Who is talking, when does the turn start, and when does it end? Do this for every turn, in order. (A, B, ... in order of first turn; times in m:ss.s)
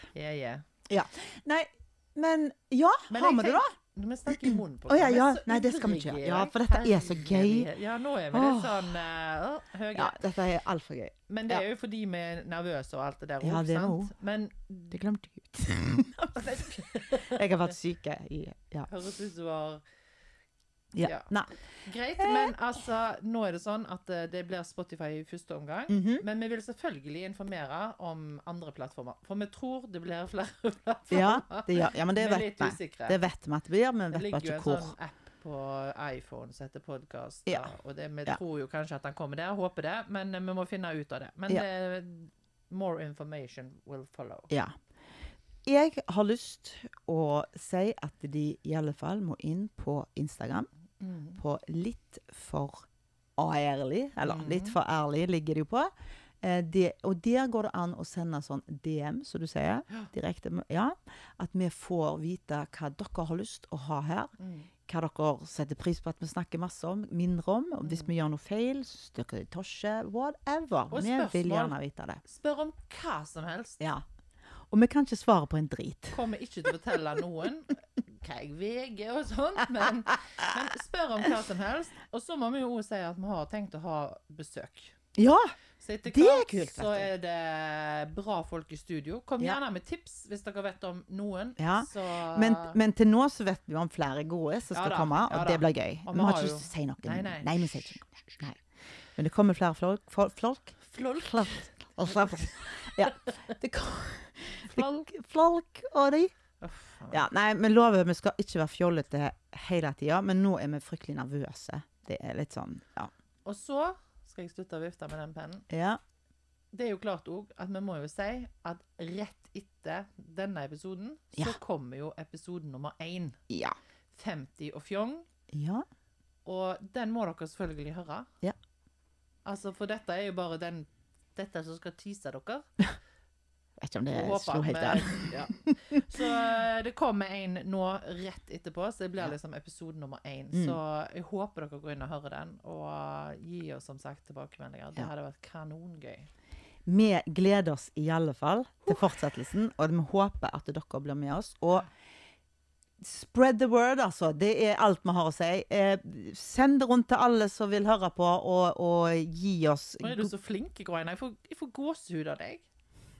0:00.1-0:00.6 A
0:00.9-0:03.7 B
0:03.1-0:10.2 A
0:04.3-0:07.7 B
0:08.3-0:09.0 B
0:09.9-0:11.6 B
0:11.3-0:15.0 A
0:13.4-0:14.1 B
0:14.9-0:18.9 B
0:16.4-0:17.4 A
0:18.9-0:19.8 A
0:20.9-0:21.5 B
0:21.0-0:21.3 A
0:21.8-0:33.2 A
0:22.2-0:22.5 B
0:25.9-0:26.2 B
0:31.1-0:34.9 B
0:34.1-0:44.5 A
0:37.4-0:37.7 B
0:45.6-0:50.7 B
0:51.0-0:51.4 A
0:51.4-0:52.8 B
0:53.4-0:55.9 B
0:54.2-0:54.8 A
0:56.4-1:04.3 B
1:04.4-1:04.7 A
1:04.9-1:12.2 B
1:07.8-1:08.1 A
1:10.9-1:13.8 A
1:14.7-1:16.2 B
1:16.1-1:24.9 A
1:25.2-1:25.5 B
1:25.8-1:32.8 A
1:26.0-1:27.1 B
1:31.6-1:38.6 B
1:34.7-1:38.5 A
1:39.2-1:46.3 B
1:40.8-1:43.3 A
1:46.6-1:47.2 A
1:47.1-1:53.1 B
1:53.4-1:55.7 A
1:55.7-1:56.0 B
1:56.7-2:03.4 A
2:03.5-2:03.8 B
2:04.1-2:05.2 A
2:05.5-2:05.8 B
2:06.4-2:08.3 A
2:09.4-2:12.8 A
2:13.8-2:16.0 B
2:14.1-2:26.3 A
2:20.5-2:20.8 B
2:26.9-2:31.9 B
2:33.0-2:40.3 B
2:40.0-2:42.6 A